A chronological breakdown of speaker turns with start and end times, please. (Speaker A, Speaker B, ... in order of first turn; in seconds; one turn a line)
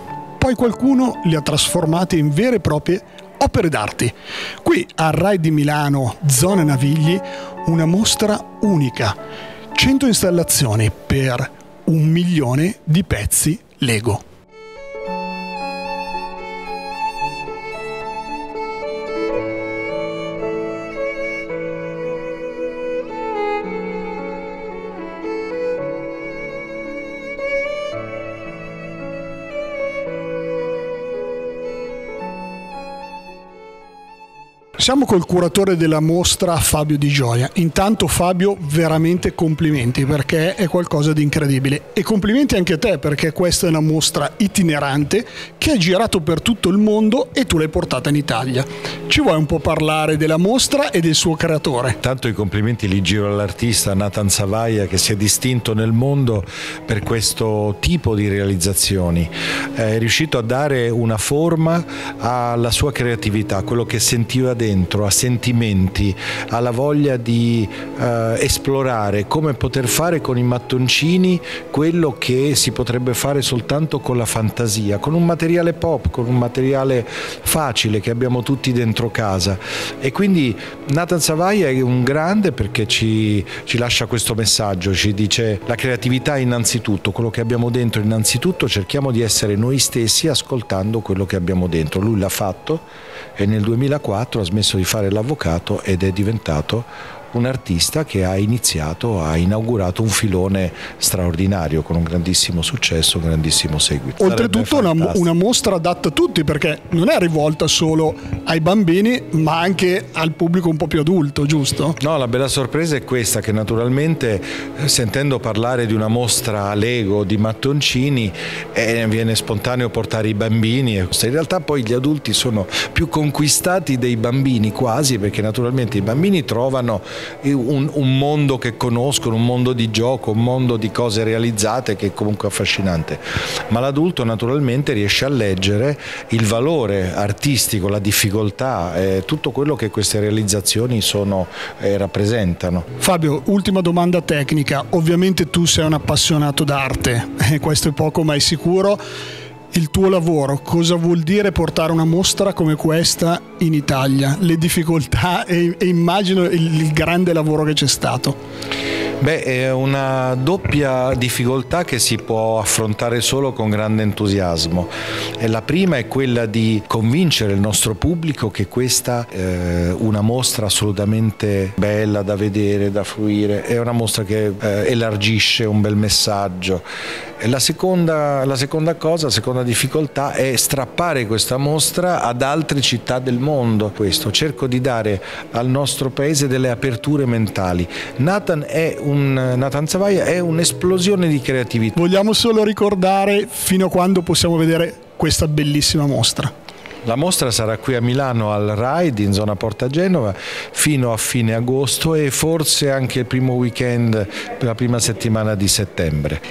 Speaker A: 0.4-9.2
Speaker A: 9.7-14.2
Speaker A: 34.8-52.0
Speaker B: 52.0-92.8
Speaker B: 93.3-105.2
Speaker A: 104.2-112.0
Speaker B: 112.0-142.9
Speaker A: 143.0-149.0
Speaker A: 149.7-158.4
Speaker B: 159.2-176.8
Speaker B: 177.4-192.0
Speaker A: 191.9-196.5
Speaker B: 197.1-206.4